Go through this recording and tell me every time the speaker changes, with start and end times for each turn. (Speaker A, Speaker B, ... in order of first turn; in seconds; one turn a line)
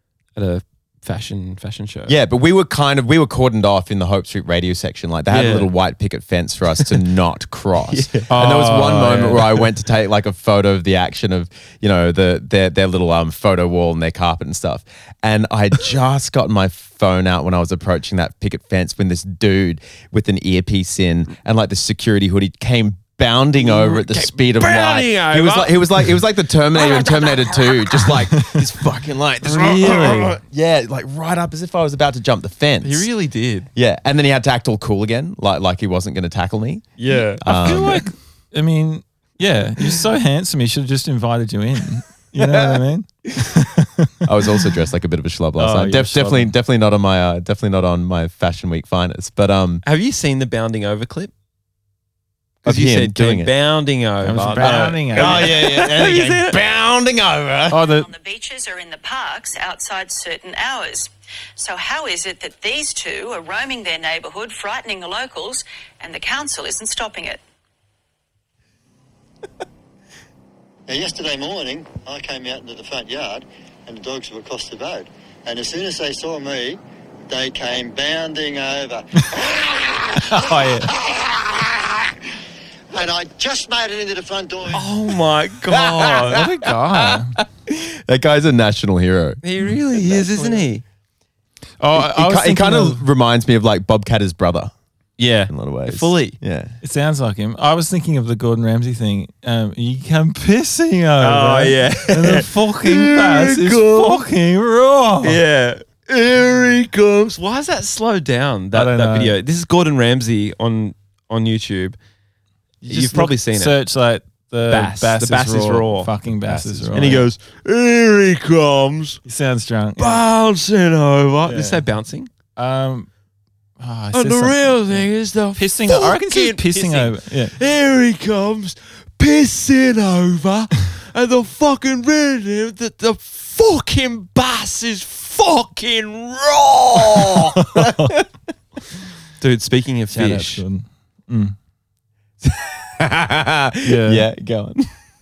Speaker A: 0.3-2.1
Speaker B: 2.1-33.1
Speaker A: 5.3-5.7
Speaker A: 7.9-8.3
Speaker C: 8.3-9.7
Speaker A: 23.6-26.1
Speaker A: 26.8-27.7
Speaker C: 28.3-28.7
Speaker C: 29.5-30.4
Speaker A: 29.8-30.3
Speaker A: 32.8-33.7
Speaker B: 33.8-36.9
Speaker A: 37.0-38.0
Speaker B: 37.4-38.0
Speaker C: 37.5-44.3
Speaker B: 44.2-49.8
Speaker C: 45.6-46.5
Speaker A: 49.8-51.3
Speaker B: 52.6-53.5
Speaker A: 52.7-56.6
Speaker C: 54.2-55.7
Speaker B: 54.6-57.8
Speaker C: 57.7-58.1
Speaker D: 57.9-67.4
Speaker E: 70.9-80.2
Speaker C: 80.2-80.9
Speaker E: 82.9-84.9
Speaker A: 84.7-86.4
Speaker B: 85.8-89.4
Speaker C: 86.3-87.4
Speaker A: 89.4-90.8
Speaker B: 90.0-90.5
Speaker C: 91.8-93.0
Speaker B: 92.0-94.7
Speaker A: 95.2-96.4
Speaker B: 95.5-96.7
Speaker C: 96.8-105.4
Speaker A: 101.2-104.2
Speaker A: 105.2-112.0
Speaker C: 108.7-109.4
Speaker A: 112.8-113.8
Speaker C: 112.8-117.3
Speaker A: 114.7-119.2
Speaker C: 119.3-120.2
Speaker A: 120.0-122.3
Speaker C: 121.5-121.8
Speaker C: 122.6-123.1
Speaker C: 123.8-125.0
Speaker A: 124.1-137.6
Speaker C: 125.6-127.5
Speaker B: 137.0-138.2
Speaker C: 137.6-138.2
Speaker A: 139.4-140.6
Speaker C: 140.1-141.6
Speaker B: 142.4-144.9
Speaker C: 143.8-144.3